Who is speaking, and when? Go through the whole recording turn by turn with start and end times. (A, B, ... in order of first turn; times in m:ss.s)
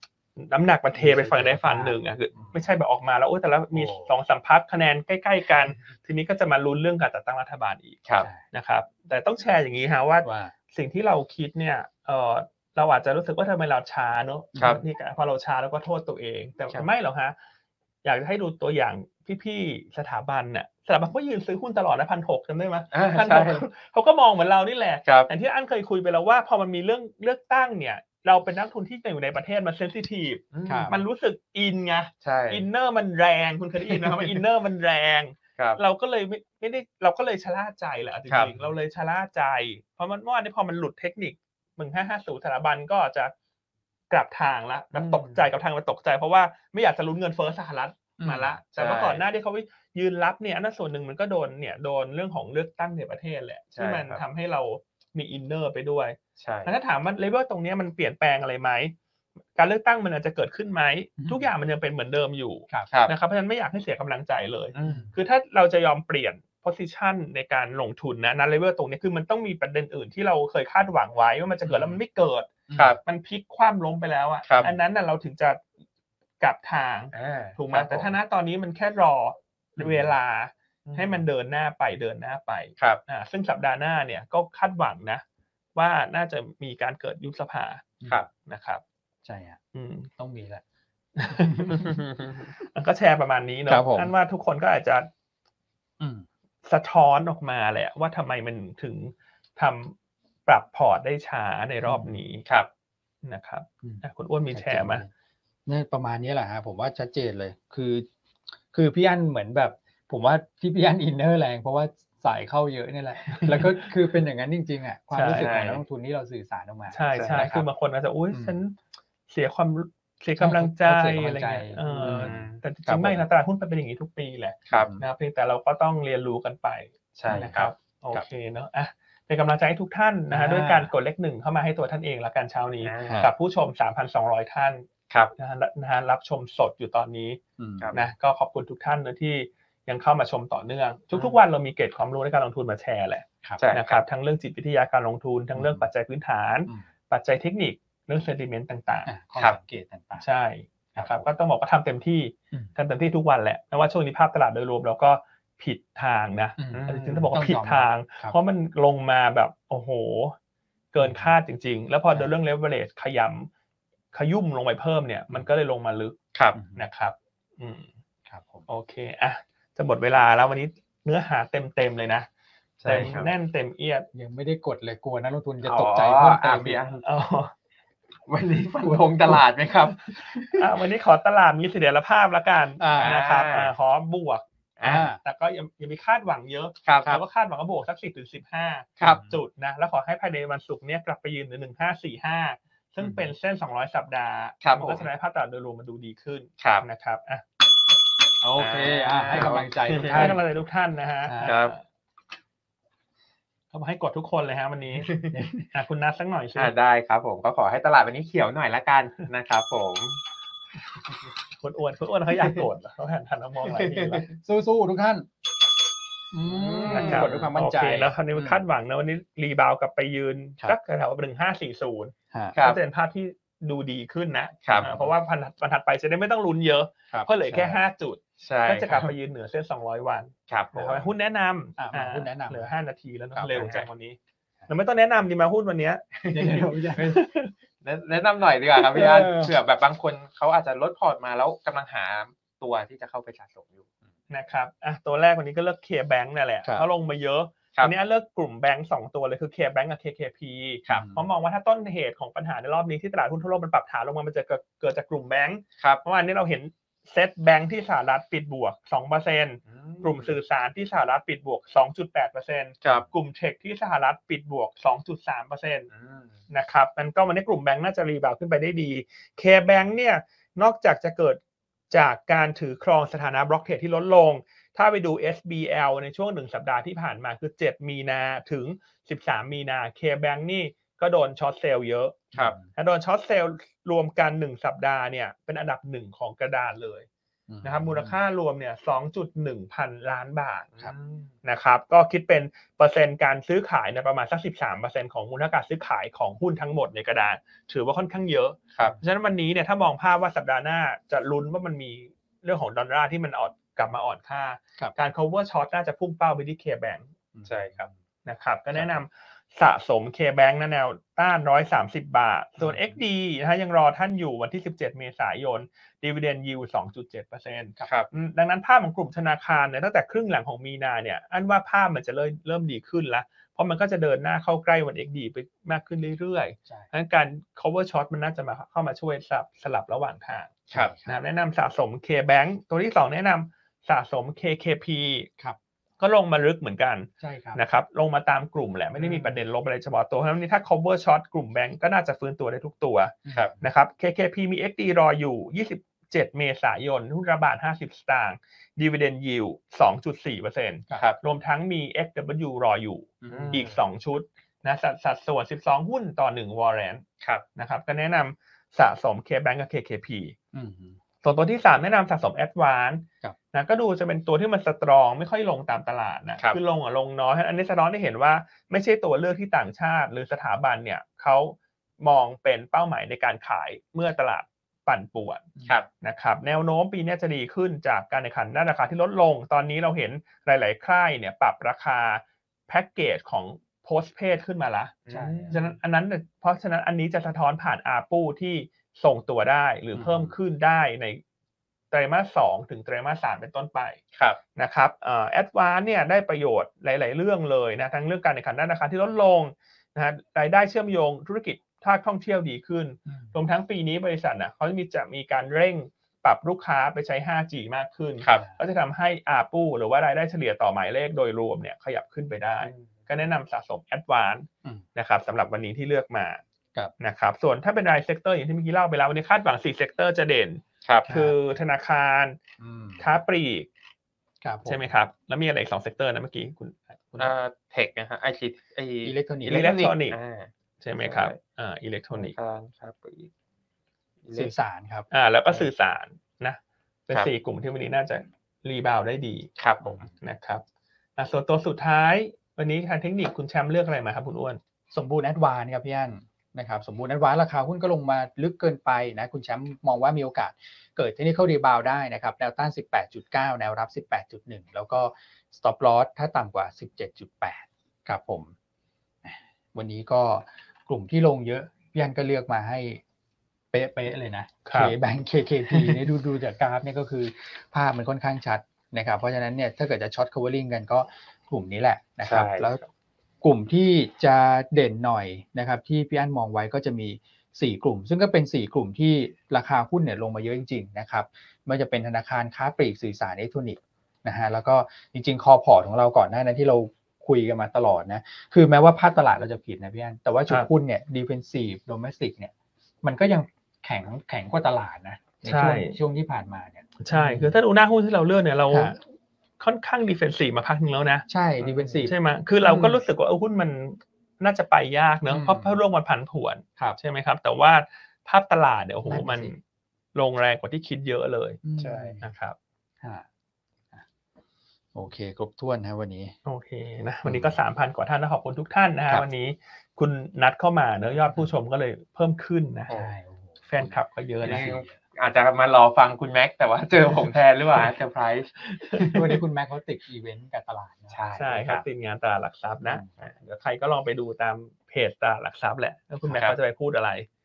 0:00.4-0:17.4 A
0:01.0-0:02.7 B
0:03.7-0:04.1 B
0:10.2-0:10.5 B
0:14.6-0:14.8 B
0:18.0-0:43.3 A
0:22.9-0:23.7 C
0:25.0-0:25.3 C
0:30.5-0:31.0 C
0:30.6-0:31.0 B
0:32.2-0:32.7 C
0:38.3-0:38.7 B
0:44.1-0:59.0 A
0:44.9-0:45.5 C
0:48.2-0:48.6 B
0:48.7-0:49.2 C
0:53.8-0:54.2 C
0:56.4-0:56.7 C
0:59.6-1:15.6 A
1:01.2-1:01.5 B
1:04.7-1:05.1 C
1:04.8-1:05.2 B
1:11.6-1:12.0 B
1:12.7-1:13.0 B
1:14.4-1:14.7 C
1:16.4-1:25.2 A
1:17.1-1:18.2 C
1:19.8-1:20.1 B
1:20.8-1:21.2 C
1:25.8-1:27.9 A
1:28.0-1:28.2 B
1:28.4-1:28.8 A
1:29.2-1:29.6 B
1:29.7-1:30.1 A
1:30.2-1:30.6 B
1:31.2-1:32.0 A
1:31.3-1:32.0 B
1:31.8-1:32.5 C
1:32.6-1:35.1 A
1:33.7-1:34.1 B
1:36.0-1:36.3 B
1:36.6-1:42.4 A
1:41.8-1:42.2 B
1:43.2-1:45.0 A
1:43.8-1:45.1 B
1:45.7-1:48.1 B
1:48.7-1:57.7 B
1:53.3-1:53.9 A
1:55.1-1:55.8 A
1:55.3-1:55.8 C
1:56.9-1:58.8 A
1:57.1-1:57.5 C
1:58.3-1:58.6 B
1:59.3-2:17.4 A
2:00.4-2:03.2 B
2:02.0-2:02.6 C
2:04.7-2:05.0 B
2:07.2-2:07.7 C
2:10.3-2:10.9 B
2:12.8-2:13.2 C
2:13.1-2:13.3 B
2:17.6-2:18.0 B
2:17.9-2:29.1 A
2:23.6-2:24.0 C
2:25.6-2:25.9 B
2:29.1-2:30.3 B
2:30.2-2:40.4 A
2:30.9-2:31.3 B
2:36.6-2:38.4 B
2:36.7-2:37.3 C
2:40.9-2:43.5 A
2:41.0-2:41.4 B
2:44.1-2:46.2 A
2:46.5-2:46.8 B
2:46.8-2:47.9 A
2:48.3-2:48.7 B
2:48.7-2:52.3 A
2:52.8-2:53.3 C
2:52.8-2:53.2 B
2:52.9-2:54.1 A
2:54.1-2:56.8 B
2:55.6-2:57.1 C
2:57.0-2:57.5 A
2:58.3-3:00.7 C
2:58.8-2:59.4 B
3:00.6-3:17.4 A
3:02.8-3:03.2 B
3:03.0-3:03.7 C
3:04.8-3:05.1 C
3:04.8-3:05.2 B
3:06.8-3:07.2 C
3:09.0-3:09.4 B
3:14.6-3:15.1 C
3:16.6-3:16.9 C
3:18.4-3:20.4 B
3:18.6-3:20.4 C
3:19.9-3:21.8 A
3:21.3-3:21.5 B
3:21.4-3:21.8 C
3:23.7-3:25.1 A
3:25.0-3:25.5 C
3:25.3-3:25.7 B
3:25.7-3:26.7 A
3:26.6-3:30.2 C
3:31.6-3:34.3 A
3:32.3-3:32.7 C
3:33.6-3:34.3 C
3:34.3-3:35.3 B
3:36.3-3:38.6 B
3:36.4-3:37.5 C
3:36.9-3:56.0 A
3:42.3-3:42.6 B
3:42.6-3:42.8 C
3:44.6-3:44.9 C
3:44.7-3:45.1 B
3:47.1-3:47.8 B
3:48.4-3:49.1 C
3:50.5-3:51.1 C
3:51.8-3:52.7 B
3:53.3-3:53.8 B
3:53.5-3:53.9 C
3:56.1-3:57.2 C
3:56.3-3:57.3 B
3:57.0-3:57.5 A
3:57.8-4:03.9 C
3:58.8-3:59.5 B
4:04.3-4:25.9 A
4:10.9-4:11.3 B
4:19.7-4:20.4 C
4:22.8-4:23.1 C
4:25.9-4:26.4 C
4:26.5-4:47.1 A
4:42.3-4:42.7 B
4:47.5-4:48.2 B
4:47.6-4:50.7 A
4:50.7-4:51.4 C
4:51.4-5:07.1 A
5:07.3-5:07.9 B
5:07.5-5:07.9 C
5:08.3-5:35.3 A
5:12.6-5:13.0 B
5:17.8-5:18.1 C
5:30.7-5:31.2 B
5:36.0-5:57.0 A
5:37.2-5:37.6 B
5:39.0-5:39.4 B
5:43.2-5:43.7 B
5:53.2-5:53.7 B
5:53.3-5:53.8 C
5:57.6-6:00.4 A
6:00.5-6:01.0 B
6:01.2-6:15.5 A
6:16.0-6:25.0 A
6:25.1-6:25.6 C
6:25.1-6:25.8 B
6:25.5-6:31.2 A
6:30.0-6:30.4 B
6:31.9-6:34.0 A
6:34.1-6:34.4 C
6:34.6-6:56.4 A
6:43.1-6:43.3 B
6:48.2-6:48.5 C
6:48.3-6:48.6 B
6:52.6-6:52.9 C
6:57.0-7:02.4 A
7:00.8-7:01.1 C
7:01.1-7:01.4 B
7:02.6-7:03.0 B
7:03.0-7:03.7 A
7:04.4-7:04.9 B
7:04.7-7:07.3 A
7:07.2-7:11.4 C
7:09.0-7:09.8 B
7:09.5-7:10.2 A
7:10.8-7:12.4 A
7:12.1-7:13.3 C
7:14.2-7:14.5 C
7:14.3-7:15.1 B
7:15.1-7:19.5 A
7:19.6-7:20.1 C
7:19.8-7:20.1 B
7:20.2-7:20.6 A
7:21.2-7:24.6 A
7:24.9-7:38.5 B
7:39.2-7:43.0 B
7:43.7-7:52.9 B
7:44.7-7:45.0 A
7:45.7-7:46.0 C
7:52.2-7:52.7 C
7:53.4-8:17.6 B
8:15.4-8:16.0 A
8:17.0-8:19.0 A
8:18.7-8:19.0 B
8:19.6-8:21.3 A
8:21.3-8:23.0 B
8:21.6-8:22.0 C
8:22.0-8:29.6 A
8:25.3-8:25.8 B
8:29.0-8:29.5 B
8:30.2-8:31.6 A
8:31.6-8:32.3 B
8:31.8-8:32.2 C
8:32.2-8:32.6 A
8:33.0-8:33.3 B
8:34.9-8:36.4 B
8:36.4-8:42.9 A
8:37.2-8:37.6 B
8:42.9-8:45.0 B
8:43.7-8:44.7 A
8:44.4-8:49.4 C
8:48.6-8:49.0 A
8:49.0-8:51.2 B
8:51.1-8:51.8 C
8:51.4-8:57.3 A
8:52.8-8:53.1 B
8:56.3-8:56.6 C